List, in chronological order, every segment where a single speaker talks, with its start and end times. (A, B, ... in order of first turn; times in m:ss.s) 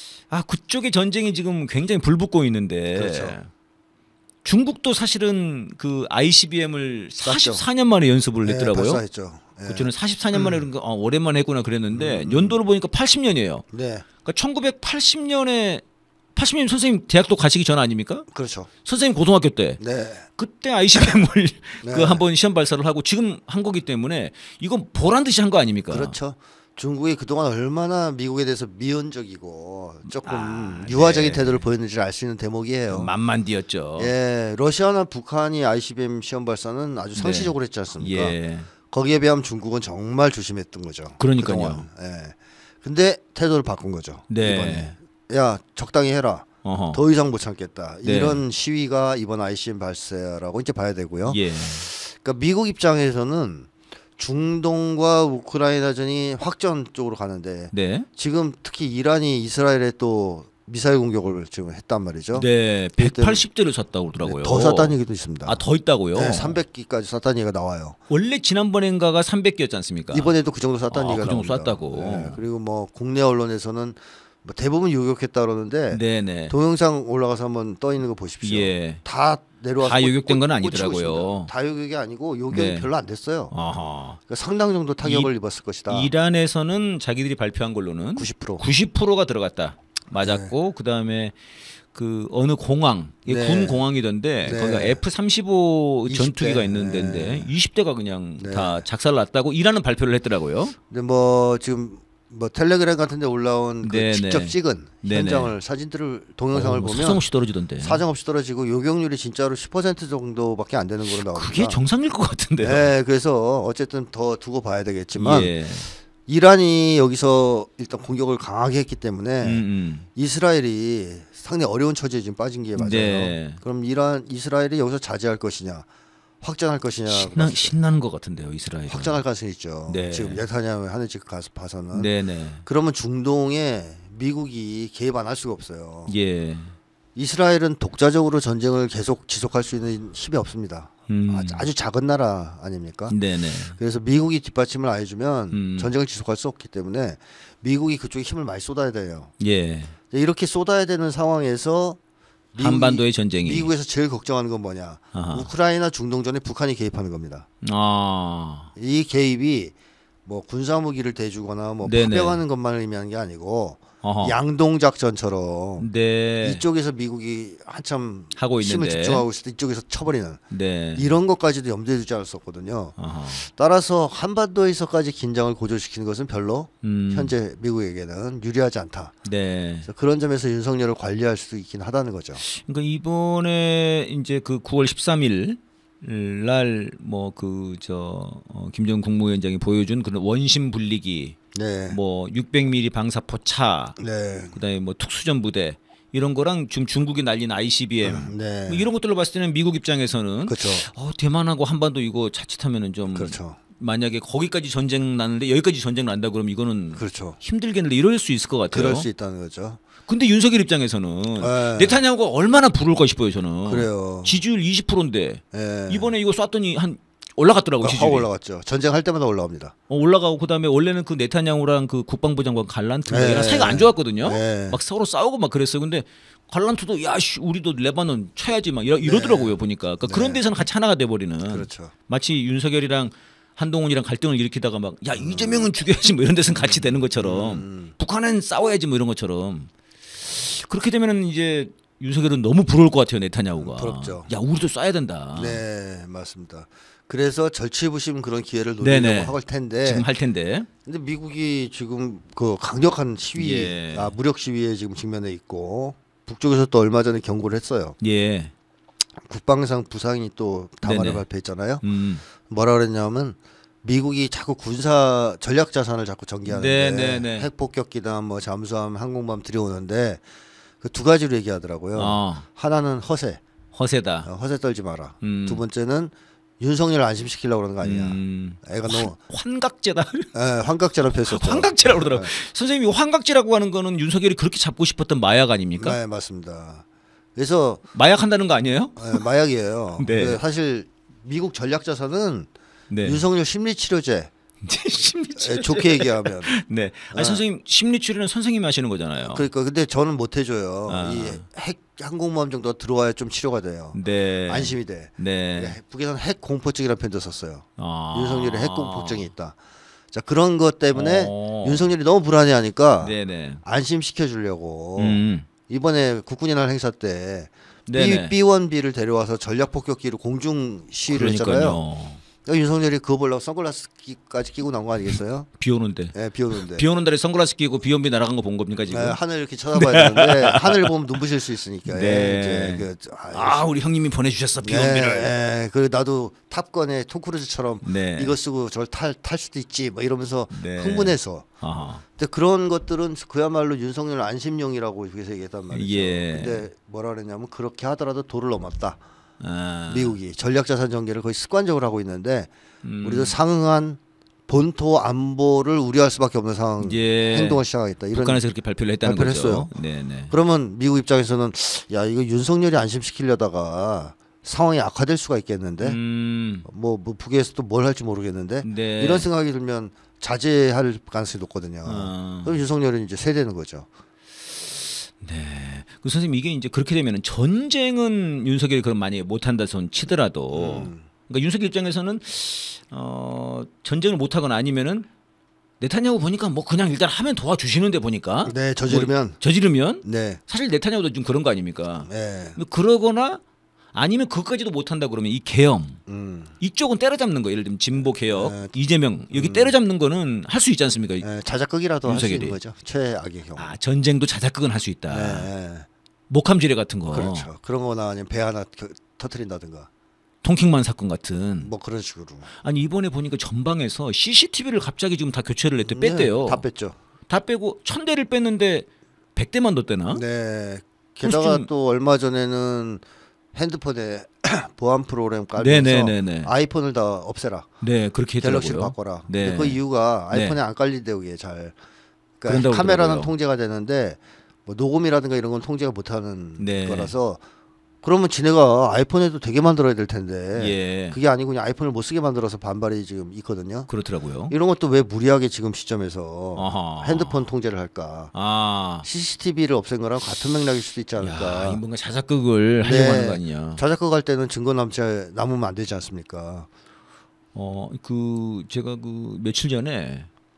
0:00.3-0:03.5 A
0:02.9-0:03.4 B
0:04.4-0:09.0 A
0:07.2-0:07.6 B
0:08.4-0:10.6 B
0:09.7-0:13.6 A
0:11.9-0:12.6 B
0:13.7-0:14.1 B
0:14.2-0:15.8 A
0:16.3-0:18.3 A
0:18.3-0:18.7 B
0:18.8-0:19.8 A
0:19.8-0:20.3 B
0:20.4-0:26.1 A
0:21.8-0:22.2 B
0:25.9-0:33.1 B
0:30.2-0:31.6 A
0:32.9-0:34.1 A
0:34.0-0:38.4 B
0:37.1-0:38.7 A
0:38.9-1:03.4 B
0:41.2-0:41.9 A
0:44.3-0:44.9 A
0:46.6-0:47.0 A
0:48.0-0:48.4 A
0:51.2-0:51.9 A
0:57.7-0:58.1 A
1:02.3-1:06.6 A
1:04.2-1:05.6 B
1:06.1-1:08.0 B
1:08.1-1:10.4 A
1:10.1-1:23.5 B
1:10.9-1:12.4 A
1:15.9-1:16.5 A
1:18.4-1:19.0 A
1:19.8-1:21.5 A
1:22.5-1:22.9 A
1:23.5-1:24.2 A
1:24.2-1:26.1 B
1:25.0-1:25.3 A
1:25.9-1:31.4 A
1:28.2-1:28.6 B
1:30.2-1:30.5 B
1:31.9-1:40.8 A
1:33.3-1:33.8 B
1:34.4-1:35.0 B
1:36.1-1:37.5 B
1:38.4-1:38.8 B
1:40.9-1:47.2 B
1:43.8-1:45.5 A
1:46.5-1:48.0 A
1:47.8-1:51.8 B
1:51.0-1:52.9 A
1:52.6-1:55.5 B
1:55.1-1:55.9 A
1:56.2-1:59.6 B
1:59.4-2:00.1 A
2:00.2-2:05.9 B
2:02.8-2:03.6 A
2:06.4-2:07.7 B
2:07.1-2:09.2 A
2:08.9-2:12.1 B
2:09.9-2:10.4 A
2:11.9-2:12.6 A
2:12.6-2:16.1 B
2:16.1-2:16.7 A
2:17.1-2:23.2 B
2:21.1-2:21.7 A
2:23.1-2:23.8 A
2:23.7-2:29.3 B
2:25.5-2:25.9 A
2:29.4-2:29.9 A
2:30.1-2:32.0 B
2:32.5-2:37.4 B
2:32.6-2:33.7 A
2:35.1-2:35.5 A
2:37.6-2:38.7 A
2:38.8-2:45.9 B
2:41.8-2:42.4 A
2:44.0-2:44.4 A
2:45.8-2:46.6 A
2:46.4-2:50.4 B
2:48.3-2:49.2 A
2:50.5-2:51.1 A
2:51.0-2:59.2 B
2:53.0-2:53.4 A
2:56.8-2:57.3 A
2:59.2-2:59.9 A
2:59.8-3:02.4 B
3:02.4-3:11.4 A
3:11.5-3:12.0 B
3:11.9-3:14.0 A
3:14.0-3:14.6 B
3:14.5-3:29.1 A
3:18.0-3:18.9 B
3:20.4-3:20.9 B
3:23.1-3:23.6 B
3:27.0-3:27.4 B
3:28.7-3:29.8 B
3:30.0-3:38.3 A
3:31.4-3:32.0 B
3:33.6-3:34.4 B
3:35.5-3:36.1 B
3:37.8-3:39.7 B
3:39.9-4:05.6 A
3:43.1-3:44.8 B
3:49.0-3:50.4 B
3:51.5-3:51.9 B
3:55.1-3:55.7 B
3:56.6-3:57.9 B
4:03.6-4:04.3 B
4:05.3-4:10.0 B
4:08.8-4:10.7 A
4:10.8-4:18.0 B
4:13.3-4:14.1 A
4:18.0-4:18.5 A
4:19.2-4:21.8 B
4:20.8-4:21.2 A
4:21.8-4:22.2 A
4:22.4-4:30.2 B
4:26.4-4:27.5 A
4:30.8-4:33.4 B
4:32.0-4:32.4 A
4:33.7-4:34.3 A
4:34.2-4:39.2 B
4:35.2-4:35.6 A
4:37.8-4:40.3 A
4:40.3-4:42.3 B
4:41.1-4:46.0 A
4:45.8-4:46.8 B
4:47.4-4:47.8 B
4:47.9-4:49.2 A
4:49.0-4:52.5 B
4:50.0-4:50.4 A
4:52.9-4:53.2 A
4:53.0-4:54.3 B
4:54.6-4:59.5 A
4:55.4-4:56.5 B
4:57.1-4:57.4 B
4:59.2-5:09.6 B
5:00.9-5:01.4 A
5:03.9-5:05.8 A
5:07.8-5:09.3 A
5:10.1-5:21.8 B
5:10.9-5:11.8 A
5:13.0-5:13.6 A
5:15.0-5:15.5 A
5:17.9-5:18.3 A
5:21.1-5:22.2 A
5:22.4-5:25.5 B
5:25.6-5:29.2 A
5:26.1-5:26.8 B
5:28.9-5:33.7 B
5:29.7-5:30.9 A
5:31.8-5:35.3 A
5:34.6-5:41.5 B
5:37.8-5:38.3 A
5:40.5-5:42.0 A
5:42.2-5:49.0 B
5:45.7-5:46.7 A
5:49.4-5:50.2 A
5:49.9-5:52.5 B
5:52.8-5:53.4 A
5:53.0-5:58.4 B
5:56.8-5:57.6 A
5:58.1-6:00.3 A
5:59.0-5:59.7 B
6:00.3-6:06.0 B
6:05.8-6:06.7 A
6:06.6-6:13.9 B
6:08.6-6:09.3 A
6:11.8-6:12.6 A
6:15.2-6:25.1 A
6:20.5-6:21.0 B
6:25.8-6:33.4 A
6:28.4-6:29.4 B
6:30.0-6:30.4 B
6:32.0-6:32.6 B
6:33.9-6:36.0 A
6:36.1-6:36.6 B
6:36.6-6:41.3 A
6:37.9-6:38.7 B
6:39.3-6:39.8 B
6:41.2-6:43.7 B
6:42.0-6:42.6 A
6:43.6-6:45.5 A
6:45.1-6:45.9 B
6:46.3-6:47.5 A
6:47.1-6:49.9 B
6:50.4-6:51.7 A
6:51.6-6:52.5 B
6:52.6-6:56.6 A
6:55.8-6:57.0 B
6:57.3-7:00.2 A
7:00.1-7:03.0 B
7:01.2-7:01.7 A
7:03.5-7:07.7 B
7:05.6-7:06.5 A
7:07.8-7:09.8 A
7:08.4-7:11.8 B
7:10.3-7:10.6 A
7:12.4-7:17.4 B
7:12.4-7:13.3 A
7:16.6-7:17.1 A
7:18.0-7:23.9 B
7:20.5-7:21.2 A
7:23.9-7:24.5 A
7:24.5-7:28.3 B
7:26.6-7:27.5 A
7:28.3-7:29.1 A
7:29.0-7:31.8 B
7:31.2-7:33.8 A
7:32.8-7:36.7 B
7:37.5-7:40.3 A